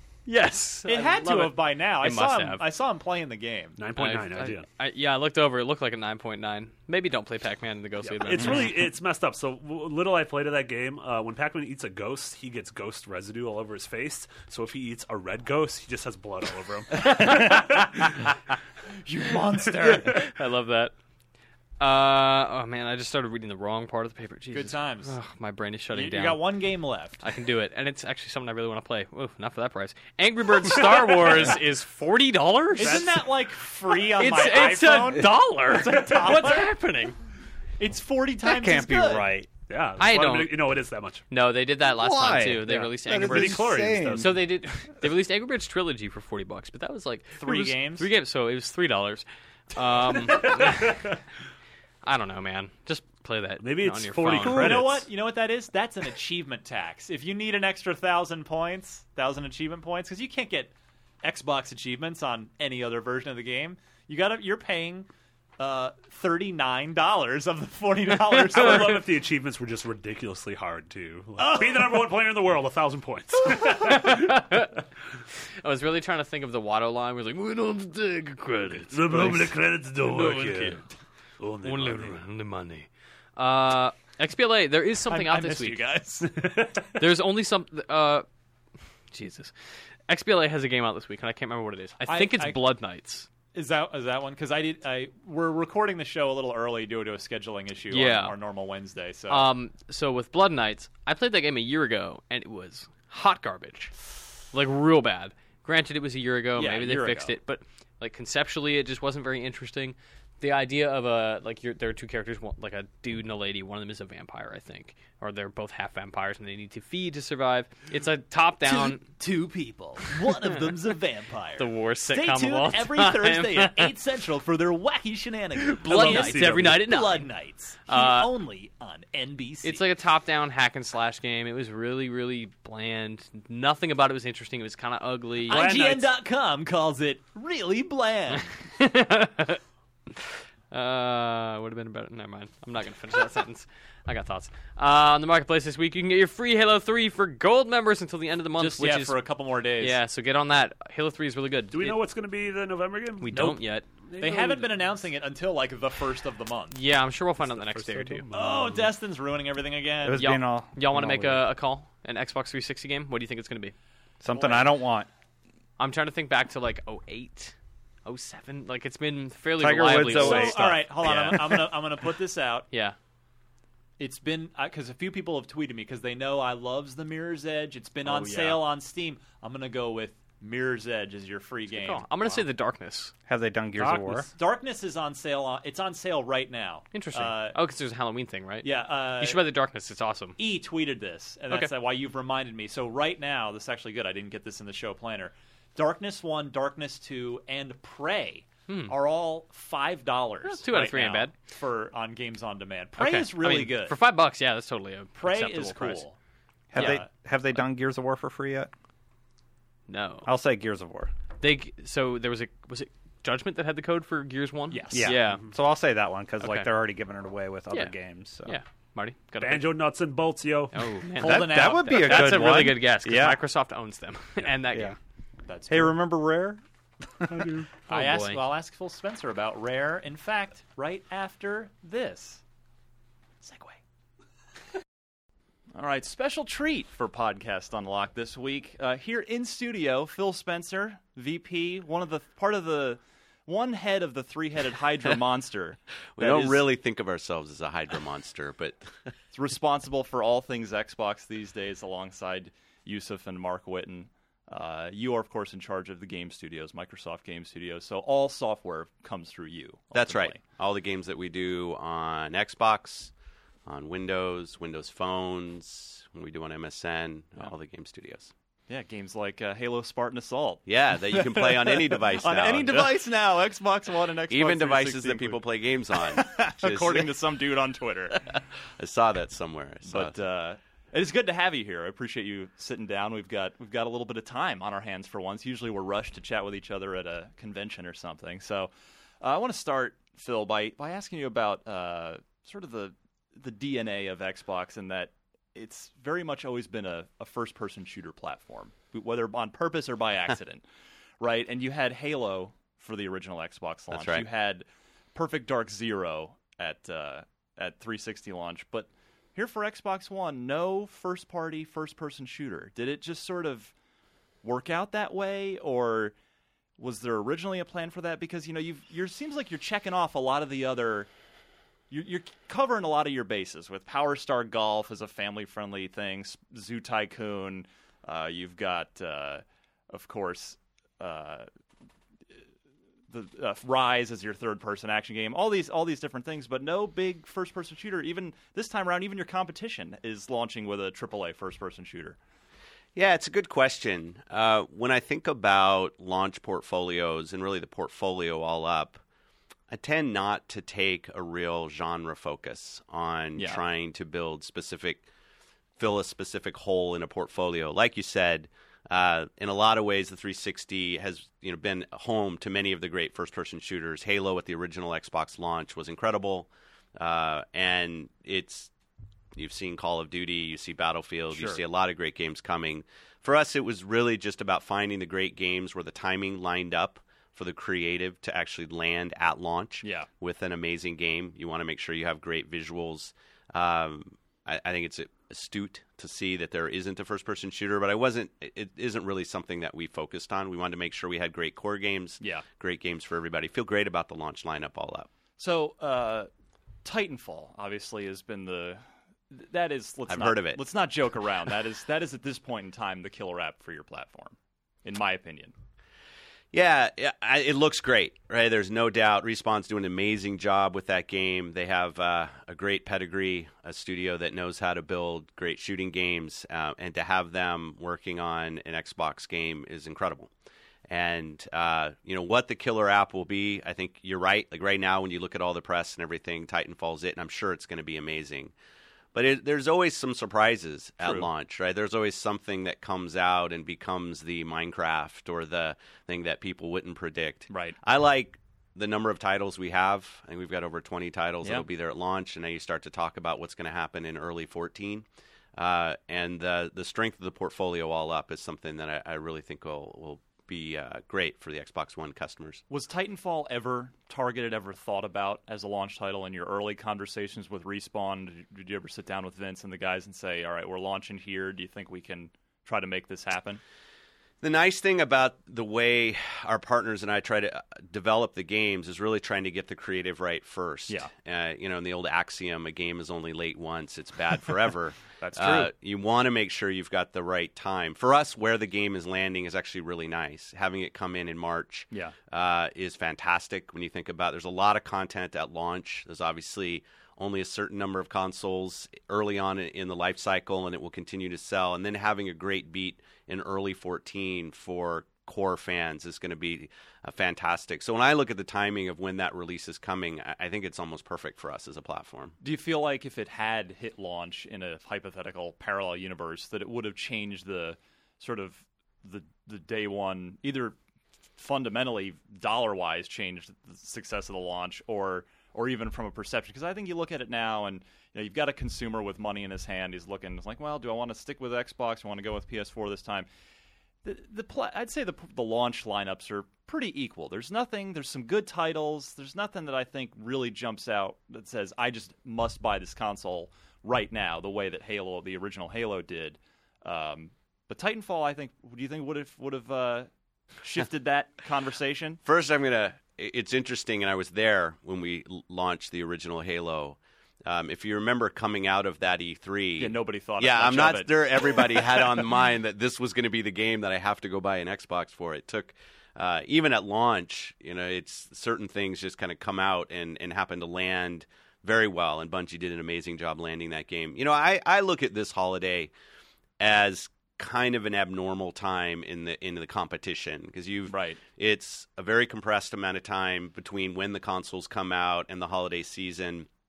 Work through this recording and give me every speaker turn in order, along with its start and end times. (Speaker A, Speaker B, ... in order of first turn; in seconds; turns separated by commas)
Speaker A: 0.2-2.6, Speaker B: 0.8-3.8, Speaker C: 3.8-4.7, Speaker A: 3.9-8.7, Speaker C: 8.0-18.1, Speaker B: 17.5-17.8, Speaker B: 19.0-20.3, Speaker A: 19.8-20.9, Speaker A: 21.8-26.4, Speaker B: 24.5-25.1, Speaker B: 25.9-27.2, Speaker A: 27.2-33.0, Speaker B: 32.7-36.7, Speaker C: 32.8-33.2, Speaker A: 34.1-37.1, Speaker B: 37.8-39.3, Speaker D: 38.4-39.5, Speaker C: 39.7-41.2, Speaker A: 40.0-40.5, Speaker A: 41.3-51.1, Speaker D: 41.8-44.5, Speaker C: 42.6-44.5, Speaker B: 47.3-48.1, Speaker C: 50.3-51.1, Speaker A: 52.0-54.9, Speaker C: 53.6-55.0, Speaker B: 54.4-69.0, Speaker C: 68.3-74.3, Speaker B: 71.4-72.0, Speaker A: 73.5-74.8, Speaker A: 75.6-80.8, Speaker C: 78.9-80.8, Speaker C: 81.4-82.2, Speaker A: 81.6-85.8, Speaker B: 85.1-86.3, Speaker C: 86.3-86.9, Speaker A: 86.9-88.2, Speaker A: 89.1-89.5, Speaker A: 90.1-93.3, Speaker B: 92.0-92.6, Speaker B: 93.5-99.5, Speaker A: 97.9-98.3, Speaker A: 99.3-103.9, Speaker A: 104.5-119.0, Speaker B: 106.5-107.3, Speaker B: 118.6-129.8, Speaker A: 121.6-123.9, Speaker A: 125.6-127.3, Speaker C: 125.8-126.8, Speaker A: 127.9-128.3, Speaker A: 129.6-135.7, Speaker B: 135.5-138.5, Speaker C: 135.5-136.1, Speaker A: 138.7-139.6, Speaker A: 140.7-149.2, Speaker B: 148.6-150.0, Speaker A: 149.8-152.0, Speaker C: 151.7-153.5, Speaker A: 153.2-153.8, Speaker C: 154.1-154.9, Speaker B: 154.2-156.8, Speaker A: 156.7-158.2, Speaker C: 157.4-158.9, Speaker B: 158.3-160.3, Speaker D: 160.0-161.5, Speaker A: 160.2-163.7, Speaker D: 164.2-165.1, Speaker B: 164.3-164.7, Speaker A: 165.8-171.6, Speaker D: 169.6-171.5, Speaker B: 170.0-172.7, Speaker B: 174.0-182.5, Speaker A: 178.1-178.6, Speaker A: 181.7-183.1, Speaker D: 183.3-184.3, Speaker C: 183.8-184.3, Speaker B: 184.3-187.6, Speaker A: 186.9-190.4, Speaker B: 188.6-189.5, Speaker B: 190.4-203.9, Speaker A: 198.7-198.9, Speaker A: 200.4-201.3, Speaker A: 203.0-206.1, Speaker B: 205.2-206.2, Speaker D: 206.7-208.7, Speaker A: 206.8-207.0, Speaker B: 206.8-207.0, Speaker A: 209.9-210.3, Speaker D: 210.2-211.1, Speaker A: 211.4-215.4, Speaker B: 214.7-215.1, Speaker D: 214.9-218.6, Speaker A: 216.4-216.7, Speaker A: 218.4-219.7, Speaker C: 219.4-220.8, Speaker A: 220.7-224.9, Speaker B: 221.2-222.6, Speaker D: 221.2-223.4, Speaker B: 225.4-226.2, Speaker D: 225.7-226.6, Speaker D: 227.2-227.6, Speaker B: 227.9-232.4, Speaker A: 227.9-228.4, Speaker B: 233.4-233.8, Speaker B: 235.7-246.7, Speaker E: 246.2-248.9, Speaker B: 249.3-260.4, Speaker E: 259.9-263.1, Speaker E: 263.6-268.3, Speaker B: 268.7-275.4, Speaker E: 270.6-273.0, Speaker E: 274.3-277.1, Speaker B: 276.1-278.2, Speaker E: 278.3-280.2, Speaker B: 279.9-300.6, Speaker B: 301.2-313.7, Speaker E: 303.9-304.2, Speaker B: 314.4-316.1, Speaker B: 316.8-321.1, Speaker B: 321.9-331.5, Speaker B: 333.1-342.2, Speaker E: 342.9-349.0, Speaker E: 349.7-355.1, Speaker E: 355.8-368.7, Speaker E: 369.3-395.1, Speaker B: 371.3-371.6, Speaker B: 379.8-380.1, Speaker B: 392.2-392.5, Speaker B: 395.4-396.3, Speaker B: 396.8-405.5, Speaker E: 400.1-400.6, Speaker E: 406.5-420.3, Speaker E: 420.9-428.5, Speaker E: 429.1-445.0, Speaker B: 431.0-431.3, Speaker B: 437.5-437.8, Speaker E: 445.6-452.6, Speaker B: 452.7-463.6, Speaker E: 464.4-502.3, Speaker B: 470.9-471.1, Speaker B: 475.2-475.7, Speaker B: 481.9-482.2, Speaker B: 502.4-510.8, Speaker B: 511.4-523.3, Speaker B: 524.0-540.1, Speaker B: 540.6-542.2, Speaker E: 542.2-565.9, Speaker B: 549.8-552.1, Speaker E: 566.6-576.5, Speaker B: 570.9-571.2